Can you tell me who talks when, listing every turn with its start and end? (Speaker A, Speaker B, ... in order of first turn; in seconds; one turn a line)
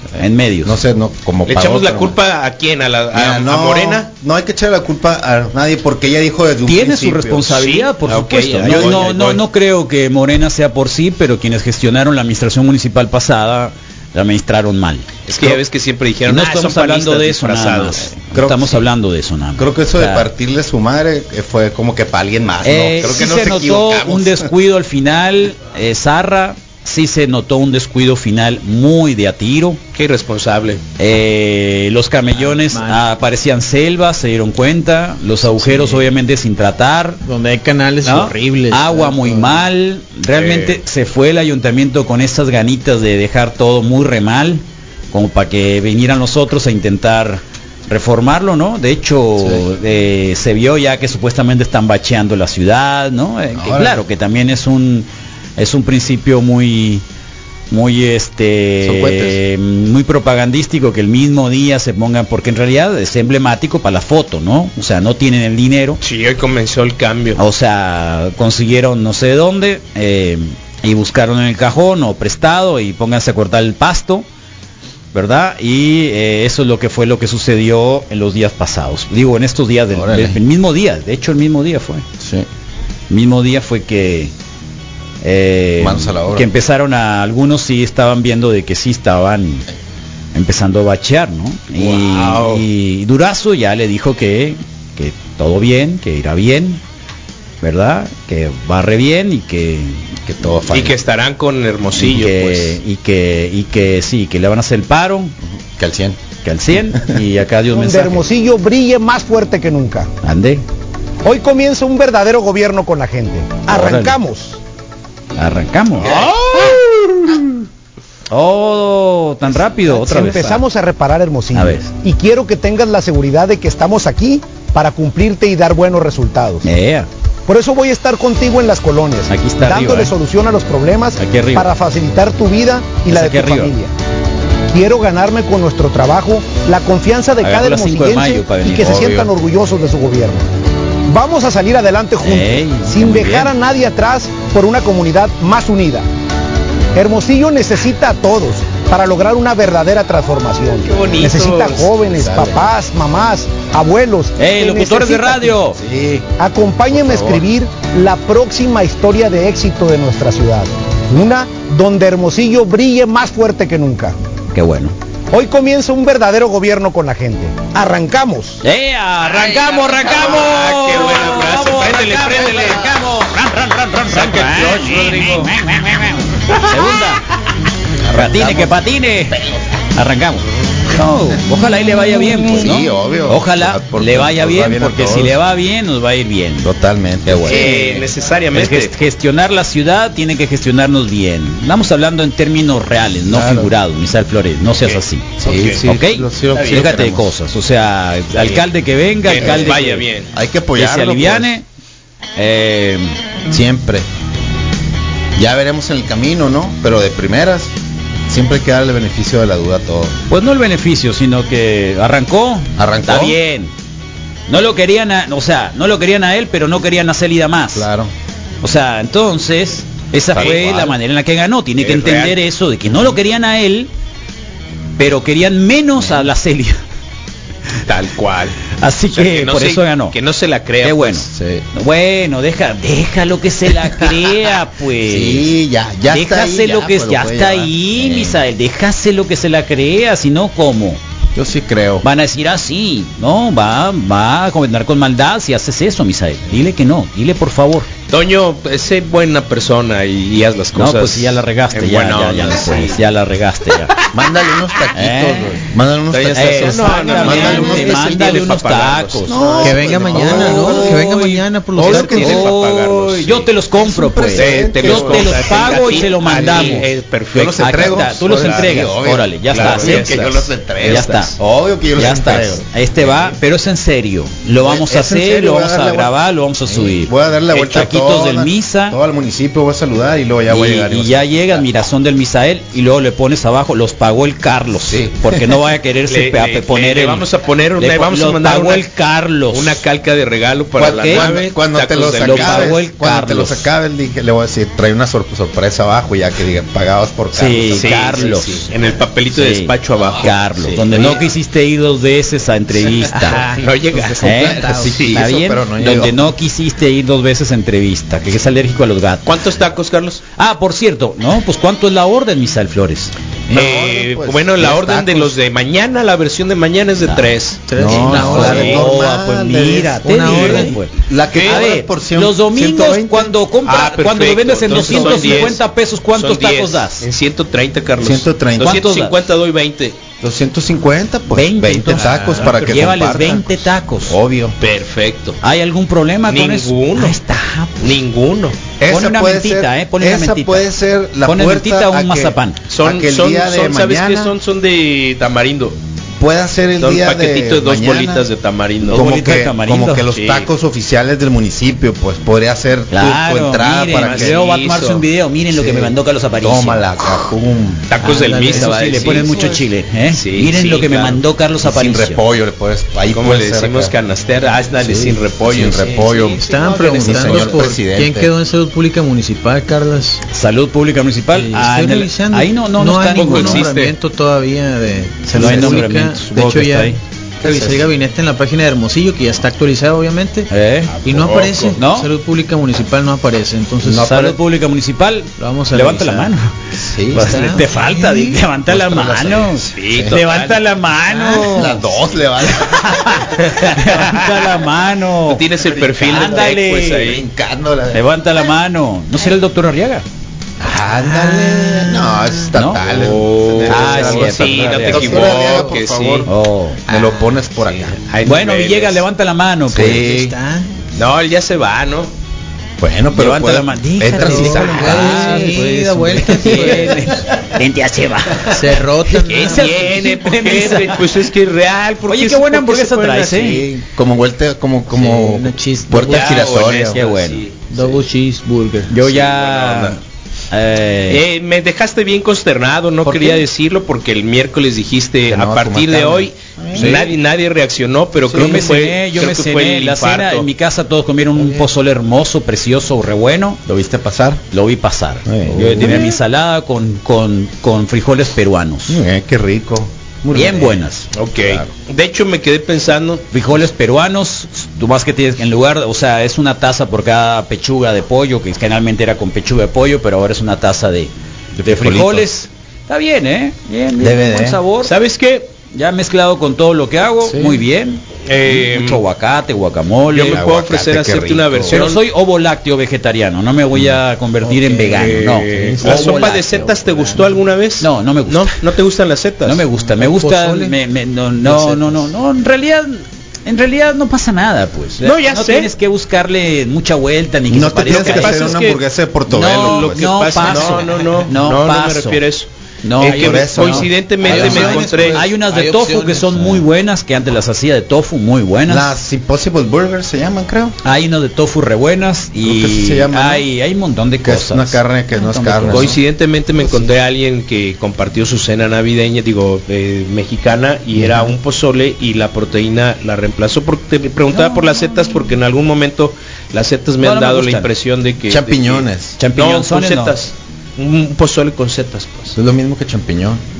Speaker A: 0.2-0.8
Speaker B: 0.6-2.2
Speaker C: 1.4-4.1
Speaker B: 3.1-7.7
Speaker A: 6.7-15.6
Speaker C: 7.5-9.4
Speaker B: 8.7-9.2
Speaker C: 15.3-18.1
Speaker A: 16.3-20.3
Speaker B: 18.3-18.8
Speaker B: 19.6-24.5
Speaker A: 22.6-29.8
Speaker C: 29.9-30.8
Speaker A: 31.0-37.2
Speaker D: 32.3-33.0
Speaker D: 35.5-36.1
Speaker D: 37.2-39.6
Speaker A: 38.0-57.0
Speaker C: 40.4-40.7
Speaker B: 53.5-54.0
Speaker A: 57.7-66.0
Speaker B: 58.8-59.4
Speaker C: 66.0-67.4
Speaker A: 67.3-74.2
Speaker A: 75.1-82.0
Speaker B: 79.9-80.4
Speaker B: 82.2-82.5
Speaker A: 83.1-84.3
Speaker A: 85.2-89.6
Speaker B: 85.8-86.5
Speaker A: 90.3-96.8
Speaker C: 91.8-92.6
Speaker A: 97.6-100.1
Speaker B: 100.2-101.0
Speaker C: 100.7-102.8
Speaker A: 102.0-105.3
Speaker B: 105.5-106.2
Speaker A: 106.4-108.2
Speaker E: 107.7-110.1
Speaker A: 110.2-110.6
Speaker E: 111.2-114.6
Speaker A: 113.7-114.2
Speaker A: 115.4-116.7
Speaker A: 117.3-117.6
Speaker A: 118.3-120.6
Speaker E: 119.8-126.7
Speaker A: 121.5-121.9
Speaker A: 126.6-127.1
Speaker E: 127.5-133.9
Speaker A: 129.3-130.1
Speaker A: 131.2-131.7
Speaker A: 133.1-133.7
Speaker E: 134.7-140.4
Speaker A: 137.4-139.2
Speaker B: 138.7-139.3
Speaker E: 141.1-146.0
Speaker A: 142.2-143.5
Speaker E: 146.9-155.6
Speaker C: 150.8-151.9
Speaker B: 152.1-152.7
Speaker A: 154.4-155.8
Speaker B: 155.8-156.3
Speaker E: 156.4-164.2
Speaker B: 156.9-157.4
Speaker A: 164.5-164.9
Speaker E: 165.3-168.6
Speaker A: 168.6-177.2
Speaker C: 169.3-172.9
Speaker C: 174.1-175.5
Speaker B: 178.0-179.6
Speaker A: 178.1-179.4
Speaker A: 179.9-186.7
Speaker B: 182.3-185.4
Speaker B: 186.6-188.1
Speaker A: 187.2-187.7
Speaker C: 187.4-188.9
Speaker A: 188.5-200.1
Speaker B: 193.3-193.7
Speaker C: 194.8-195.9
Speaker B: 195.4-197.3
Speaker C: 199.2-200.3
Speaker B: 199.3-201.6
Speaker A: 200.8-201.6
Speaker A: 202.4-203.2
Speaker B: 203.5-204.1
Speaker B: 205.4-207.7
Speaker B: 208.3-210.1
Speaker A: 210.3-213.7
Speaker B: 212.8-213.4
Speaker A: 214.5-217.9
Speaker B: 217.7-218.1
Speaker A: 218.6-223.9
Speaker B: 220.3-220.9
Speaker C: 220.4-220.8
Speaker C: 221.8-222.4
Speaker A: 225.0-226.8
Speaker B: 226.0-226.3
Speaker C: 227.9-228.6
Speaker A: 228.8-230.1
Speaker C: 229.1-231.3
Speaker A: 230.8-235.5
Speaker B: 231.3-231.6
Speaker B: 233.8-234.3
Speaker B: 235.0-238.4
Speaker A: 236.1-241.0
Speaker B: 241.3-242.1
Speaker A: 242.0-247.9
Speaker C: 248.1-253.0
Speaker A: 250.8-253.9
Speaker B: 254.1-258.5
Speaker A: 254.9-255.6
Speaker C: 256.1-259.6
Speaker A: 256.3-266.9
Speaker B: 259.2-261.2
Speaker D: 259.6-262.4
Speaker C: 260.4-260.9
Speaker C: 261.8-263.5
Speaker B: 263.8-273.3
Speaker C: 264.3-268.9
Speaker A: 267.5-271.4
Speaker C: 269.5-271.3
Speaker A: 271.9-279.0
Speaker B: 274.6-281.6
Speaker A: 280.5-287.2
Speaker B: 284.9-285.6
Speaker C: 286.1-288.9
Speaker A: 287.8-289.8
Speaker C: 289.5-292.8
Speaker B: 290.8-298.3
Speaker A: 290.8-291.3
Speaker A: 292.2-293.7
Speaker A: 297.3-298.6
Speaker C: 297.8-301.2
Speaker A: 299.3-303.4
Speaker B: 299.9-301.1
Speaker D: 303.1-305.0
Speaker C: 303.3-305.2
Speaker A: 304.2-309.3
Speaker B: 304.3-306.3
Speaker C: 309.2-310.2
Speaker A: 310.4-313.1
Speaker B: 313.5-315.3
Speaker C: 313.5-317.6
Speaker A: 317.0-317.3
Speaker D: 317.7-318.8
Speaker B: 317.7-323.3
Speaker A: 317.8-327.0
Speaker C: 318.2-318.8
Speaker D: 320.0-320.8
Speaker C: 321.3-321.7
Speaker C: 323.6-325.6
Speaker B: 324.7-325.5
Speaker C: 326.1-330.0
Speaker B: 328.0-328.9
Speaker A: 328.6-329.1
Speaker B: 330.2-334.6
Speaker A: 331.3-334.2
Speaker D: 331.9-332.5
Speaker C: 332.4-332.8
Speaker C: 334.6-335.4
Speaker A: 335.4-337.9
Speaker C: 336.3-337.2
Speaker C: 337.8-338.6
Speaker B: 338.8-344.3
Speaker A: 338.9-340.6
Speaker A: 341.2-342.6
Speaker C: 342.7-345.8
Speaker B: 346.2-348.3
Speaker C: 346.8-349.1
Speaker B: 348.9-354.4
Speaker A: 348.9-350.1
Speaker C: 350.1-350.5
Speaker A: 352.9-356.9
Speaker C: 353.9-355.0
Speaker B: 355.5-357.9
Speaker C: 357.9-359.4
Speaker A: 358.0-362.2
Speaker D: 358.0-359.1
Speaker B: 358.9-359.6
Speaker C: 360.1-361.2
Speaker B: 361.6-363.9
Speaker C: 363.1-367.6
Speaker B: 364.8-368.3
Speaker D: 366.4-370.2
Speaker A: 370.3-373.7
Speaker D: 371.3-380.5
Speaker C: 373.1-373.9
Speaker A: 375.3-377.0
Speaker B: 377.4-377.9
Speaker A: 380.5-380.9
Speaker C: 381.0-381.8
Speaker D: 381.0-384.2
Speaker A: 381.8-382.1
Speaker B: 383.8-384.3
Speaker A: 383.9-386.5
Speaker D: 385.4-386.3
Speaker B: 386.7-387.4
Speaker A: 387.1-391.8
Speaker D: 387.1-388.4
Speaker B: 388.7-390.2
Speaker C: 389.7-390.6
Speaker D: 391.1-391.7
Speaker B: 391.5-393.3
Speaker A: 392.5-395.4
Speaker C: 393.4-394.3
Speaker C: 395.3-397.2
Speaker B: 395.6-398.0
Speaker A: 396.0-397.2
Speaker A: 397.9-400.0
Speaker B: 400.6-406.3
Speaker D: 400.8-402.5
Speaker A: 402.5-402.8
Speaker C: 402.8-406.3
Speaker A: 403.7-405.4
Speaker D: 405.4-405.7
Speaker A: 406.2-406.8
Speaker B: 406.9-408.0
Speaker C: 407.6-409.0
Speaker A: 408.2-410.0
Speaker B: 409.7-410.4
Speaker D: 409.8-410.8
Speaker C: 410.9-412.1
Speaker B: 412.8-415.7
Speaker A: 413.1-418.6
Speaker D: 414.1-417.0
Speaker B: 416.2-417.0
Speaker D: 418.5-420.0
Speaker C: 419.2-423.6
Speaker A: 419.2-421.0
Speaker A: 422.1-423.6
Speaker B: 423.3-427.0
Speaker D: 424.9-426.6
Speaker C: 426.0-427.7
Speaker A: 426.9-427.4
Speaker D: 427.7-428.9
Speaker A: 428.9-430.0
Speaker C: 429.0-429.9
Speaker A: 430.5-431.2
Speaker C: 431.1-440.5
Speaker A: 433.0-433.4
Speaker B: 435.3-437.1
Speaker A: 436.7-437.1
Speaker B: 438.2-438.7
Speaker A: 438.3-443.6
Speaker B: 443.6-444.4
Speaker A: 444.5-449.0
Speaker B: 445.2-446.1
Speaker B: 448.9-450.8
Speaker A: 450.3-451.1
Speaker C: 451.1-453.2
Speaker B: 451.4-451.7
Speaker A: 453.3-461.1
Speaker B: 461.6-462.3
Speaker A: 461.6-464.9
Speaker B: 464.0-464.6
Speaker C: 464.8-465.5
Speaker A: 465.7-470.4
Speaker B: 467.2-467.6
Speaker C: 468.2-469.0
Speaker C: 470.1-472.0
Speaker B: 470.2-471.8
Speaker A: 471.7-476.5
Speaker D: 474.4-477.4
Speaker C: 474.9-479.6
Speaker A: 477.8-478.5
Speaker A: 479.4-488.6
Speaker D: 479.8-480.8
Speaker D: 481.4-482.1
Speaker C: 485.0-485.7
Speaker B: 487.5-490.8
Speaker C: 487.8-488.8
Speaker A: 489.3-492.2
Speaker C: 489.4-495.2
Speaker A: 492.8-498.9
Speaker B: 493.1-494.9
Speaker D: 493.1-493.4
Speaker D: 494.2-496.6
Speaker B: 498.7-500.7
Speaker A: 500.8-506.0
Speaker B: 502.4-503.4
Speaker B: 504.2-506.0
Speaker C: 505.7-522.3
Speaker A: 514.3-515.2
Speaker A: 517.0-517.7
Speaker B: 518.3-519.2
Speaker A: 519.2-520.1
Speaker B: 522.3-523.4